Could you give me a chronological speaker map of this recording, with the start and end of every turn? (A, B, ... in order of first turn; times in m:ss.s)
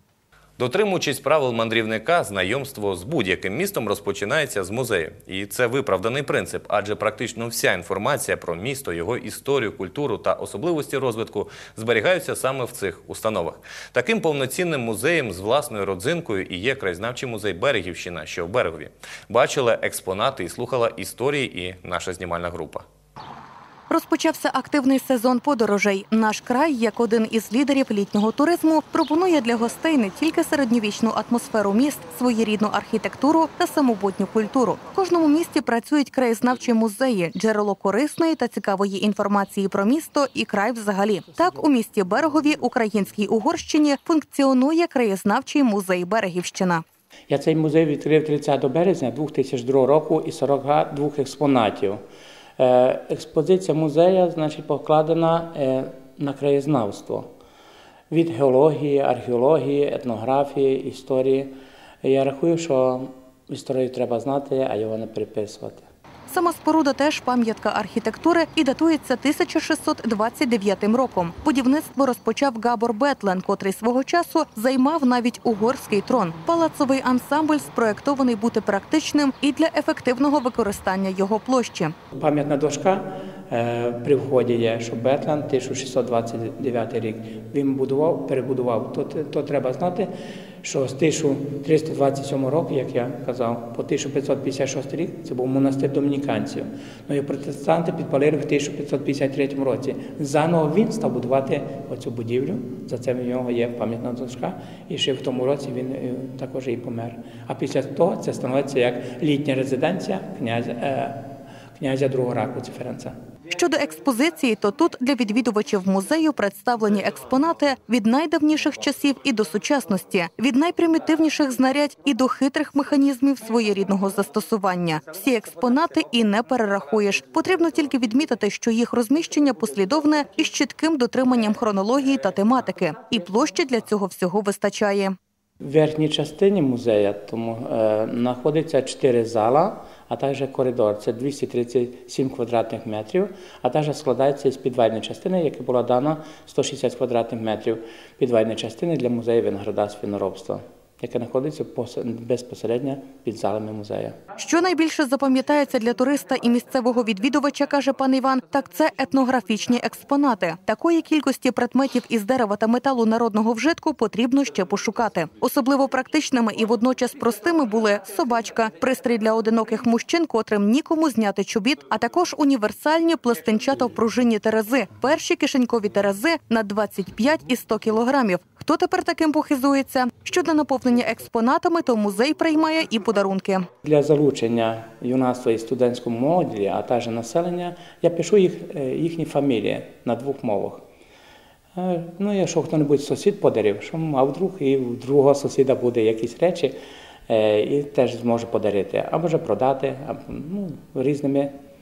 0:00.6-0:22.8 A
0:23.9-0:46.8 B
0:47.3-0:52.0 C
0:52.6-0:57.3 C
0:58.1-1:05.9 C
1:06.3-1:22.0 B
1:22.1-1:30.1 C
1:30.6-1:53.2 C
1:53.5-2:15.2 B
2:15.6-2:34.2 C
2:34.4-3:03.7 B
3:03.8-3:10.8 C
3:11.8-3:16.8 C
3:17.3-3:21.6 C